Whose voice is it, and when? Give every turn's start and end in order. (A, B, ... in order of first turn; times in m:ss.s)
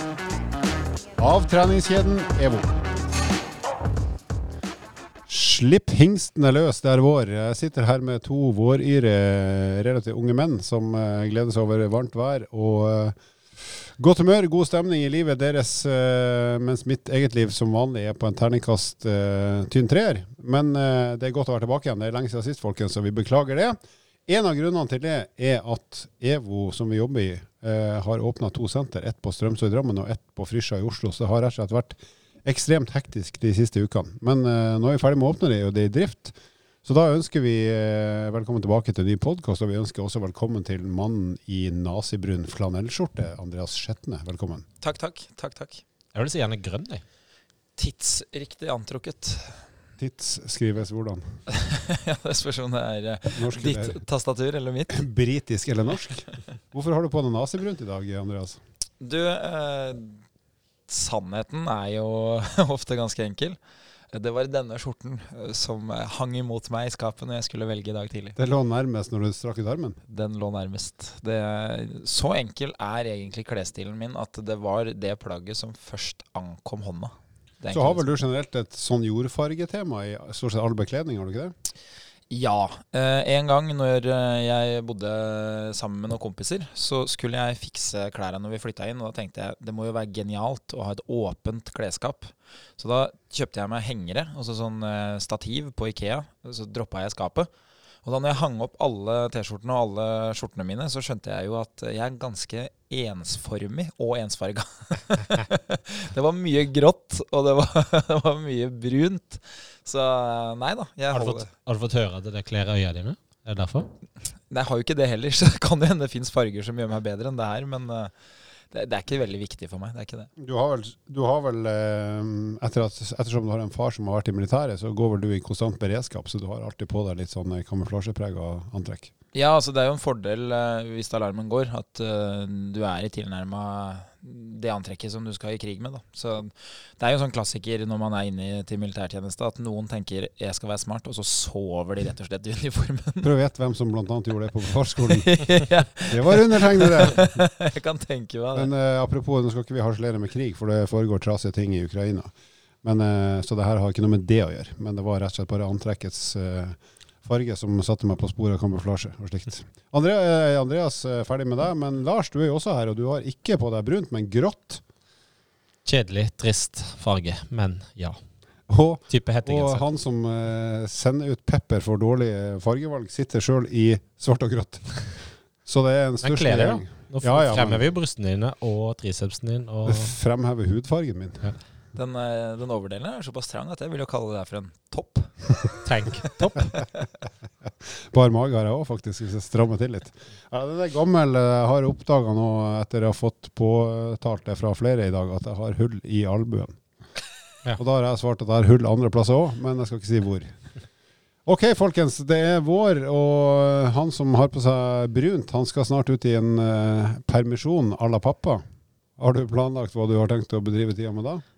0:01.2-0:02.8 A
0:05.3-0:44.6 A
0:44.8-0:45.8 B
0:46.1-0:47.0 C
0:47.8-0:49.6 B
0:50.0-0:51.2 A
0:51.5-0:55.0 B
0:53.3-0:54.0 A
0:54.9-0:58.6 A
0:59.0-1:00.2 B
1:00.9-1:03.6 B
1:04.1-1:08.4 B
1:08.4-1:10.0 A
1:10.1-1:18.1 B
1:17.7-1:21.5 A
1:22.3-1:37.5 B
1:38.0-1:51.5 B
1:51.1-1:53.9 C
1:54.5-1:58.1 B
1:58.7-2:00.3 B
2:00.4-2:09.1 A
2:09.3-2:23.3 B
2:23.2-2:25.3 A
2:25.0-2:28.7 B
2:26.1-2:27.4 A
2:28.5-2:32.3 A
2:32.8-2:44.8 A
2:45.9-2:48.2 C
2:48.7-2:57.9 A
2:49.1-2:49.8 C
2:56.2-3:00.1 C
2:59.9-3:01.5 A
3:01.9-3:06.2 B
3:05.8-3:06.8 C
3:08.1-3:16.8 A
3:17.8-3:20.5 A
3:21.5-3:28.6 A
3:29.2-3:31.4 A